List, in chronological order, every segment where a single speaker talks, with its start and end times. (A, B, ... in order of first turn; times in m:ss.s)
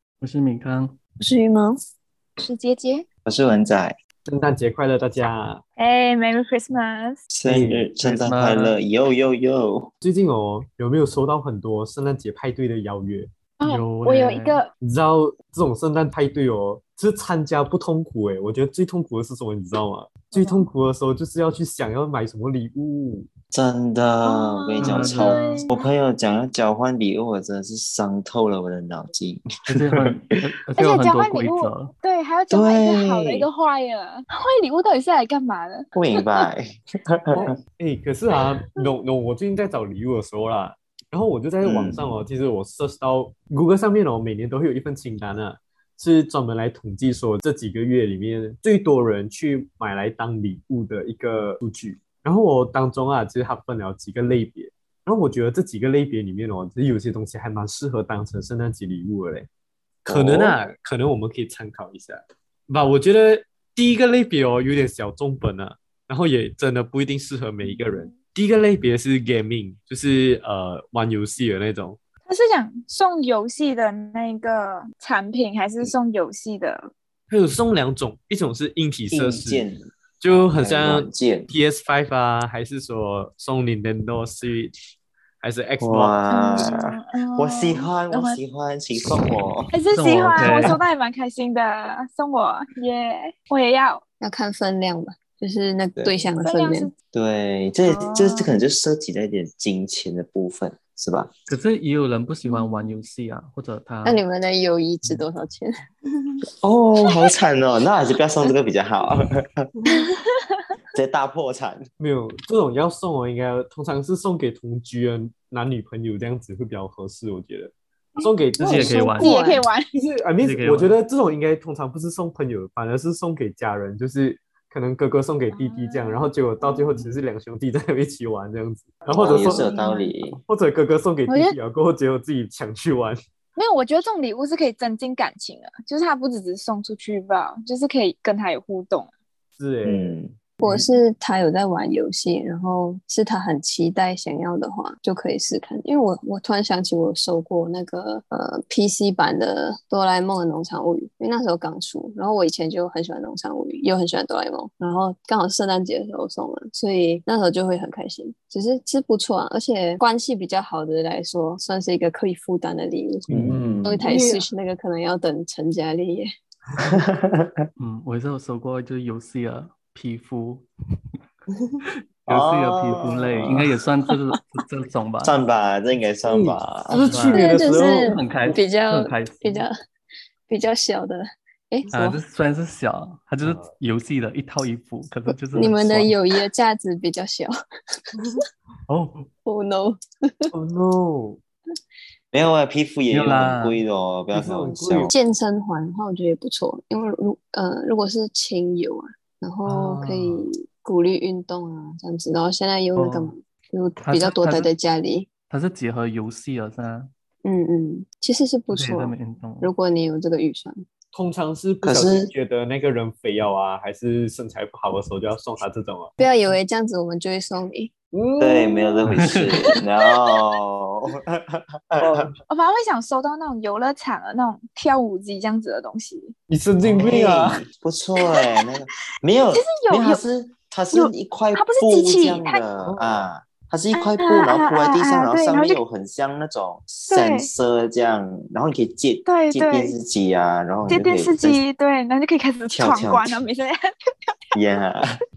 0:00.2-0:00.9 A
0:01.2-0:01.8 B
0:02.4-0:03.0 C
0:03.2-0:04.0 D
0:04.2-0:05.6 E
0:05.8-0:07.2 C
0:07.3-0:09.9 D
0:07.4-0:08.2 E
0:08.0-0:08.8 A
0:10.0-0:13.3 E
0:13.6-0:14.7 C
0:13.6-0:14.6 A
0:14.8-0:23.3 E
0:20.3-0:20.7 C
0:23.5-0:30.2 D
0:24.2-0:25.9 C
0:24.8-0:25.6 A
0:29.7-0:31.9 A
0:30.8-0:36.4 C
0:32.5-0:33.5 D
0:35.9-0:37.5 D
0:37.4-0:59.5 E
0:41.6-0:42.2 D
1:00.0-1:12.0 E
1:00.1-1:00.6 D
1:07.6-1:08.1 C
1:12.3-1:16.9 C
1:17.3-1:19.6 E
1:19.1-1:19.9 D
1:20.2-1:24.7 E
1:20.6-1:21.5 D
1:25.4-1:26.7 E
1:25.8-1:29.7 D
1:26.3-1:28.4 C
1:29.7-1:34.0 C
1:29.9-1:30.8 A
1:34.2-1:36.9 B
1:36.4-1:36.9 C
1:37.1-1:41.3 D
1:37.9-1:38.5 C
1:41.5-1:44.2 A
1:42.4-1:43.0 C
1:44.0-1:45.7 B
1:46.6-1:49.7 D
1:49.9-1:50.6 C
1:50.9-1:51.8 D
1:52.0-1:59.0 E
1:58.2-1:59.9 C
1:58.6-1:59.4 A
1:58.7-1:59.6 B
1:59.9-2:09.7 E
2:00.4-2:01.0 A
2:05.5-2:07.0 C
2:09.1-2:10.4 D
2:09.2-2:10.1 C
2:10.5-2:13.2 E
2:11.3-2:11.5 C
2:13.6-2:19.1 C
2:19.6-2:20.9 E
2:19.8-2:20.3 D
2:20.6-2:43.3 B
2:43.3-2:43.8 D
2:43.3-2:44.4 E
2:43.8-2:46.3 B
2:46.8-2:47.7 D
2:47.8-2:50.6 A
2:52.3-2:53.8 D
2:52.3-2:55.4 A
2:55.2-2:57.2 D
2:56.2-2:58.2 E
2:57.1-2:59.6 A
2:57.3-2:59.7 B
3:00.5-3:01.9 B
3:01.9-3:06.1 A
3:03.4-3:03.7 E
3:05.5-3:07.5 B
3:08.9-3:09.3 A
3:09.4-3:10.5 B
3:10.5-3:11.4 E
3:12.3-3:15.1 D
3:13.1-3:13.8 A
3:14.3-3:15.1 E
3:15.1-3:25.3 B
3:19.6-3:20.5 E
3:23.0-3:23.3 A
3:24.0-3:24.7 A
3:25.5-3:27.1 A
3:27.4-3:30.8 B
3:28.7-3:29.7 A
3:31.1-3:36.1 E
3:31.8-3:32.3 D
3:36.2-3:37.9 B
3:38.1-3:39.3 E
3:38.4-3:42.3 D
3:39.1-3:39.5 A
3:42.0-3:42.4 E
3:42.5-3:46.3 C
3:46.5-3:47.6 E
3:46.9-4:01.6 D
3:48.2-3:48.6 C
3:49.5-3:50.2 C
3:50.9-3:52.6 C
3:52.8-3:53.3 E
3:53.9-3:55.8 C
3:57.1-3:57.5 C
3:59.2-3:59.9 C
4:00.9-4:03.8 C
4:02.7-4:03.4 D
4:04.5-4:05.1 D